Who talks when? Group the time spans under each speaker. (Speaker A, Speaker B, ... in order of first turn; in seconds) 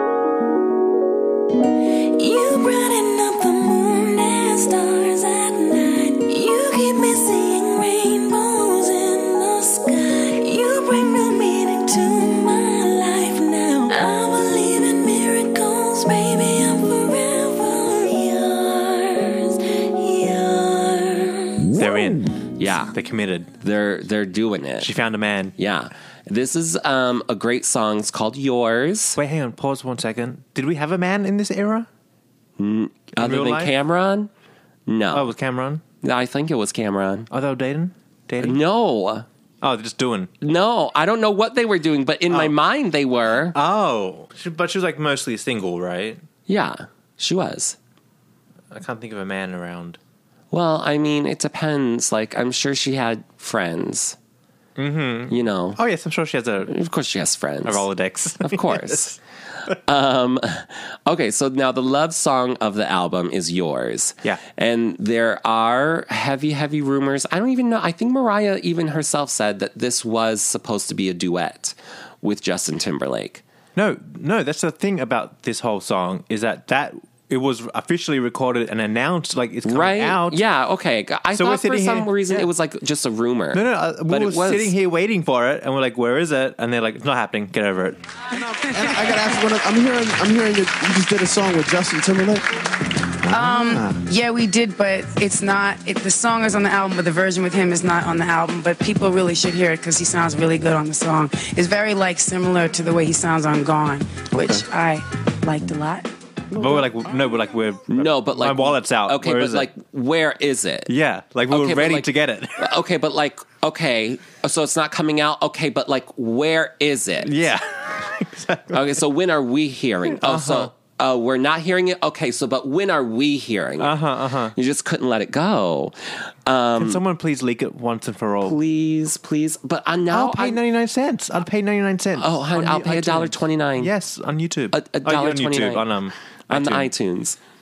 Speaker A: 2.0-21.9
Speaker B: 21.7-22.4, 22.9-23.5, 24.8-25.6, 29.2-31.9, 33.1-33.7, 35.1-35.8, 37.3-38.6, 39.6-40.3, 43.5-46.2, 48.7-50.0, 54.8-56.7, 57.6-59.1, 73.8-80.4, 81.3-82.5, 83.5-88.0, 106.5-109.7, 110.9-112.7, 117.2-118.8, 120.1-120.7, 123.8-124.5, 126.8-128.6, 130.1-136.9
Speaker C: 22.6-22.9, 23.6-24.9, 25.6-29.2, 32.6-34.3, 34.9-35.3, 36.0-37.3, 38.4-39.2, 40.4-43.5, 46.5-47.8, 50.5-54.2, 55.3-55.8, 56.7-57.8, 58.4-73.4, 79.6-84.7, 107.9-110.9, 111.5-117.4, 118.7-124.0, 124.5-127.0, 128.4-130.6, 132.2-133.9, 134.7-135.9, 136.5-137.4
Speaker D: 88.5-92.4, 93.3-94.0
Speaker E: 93.3-106.1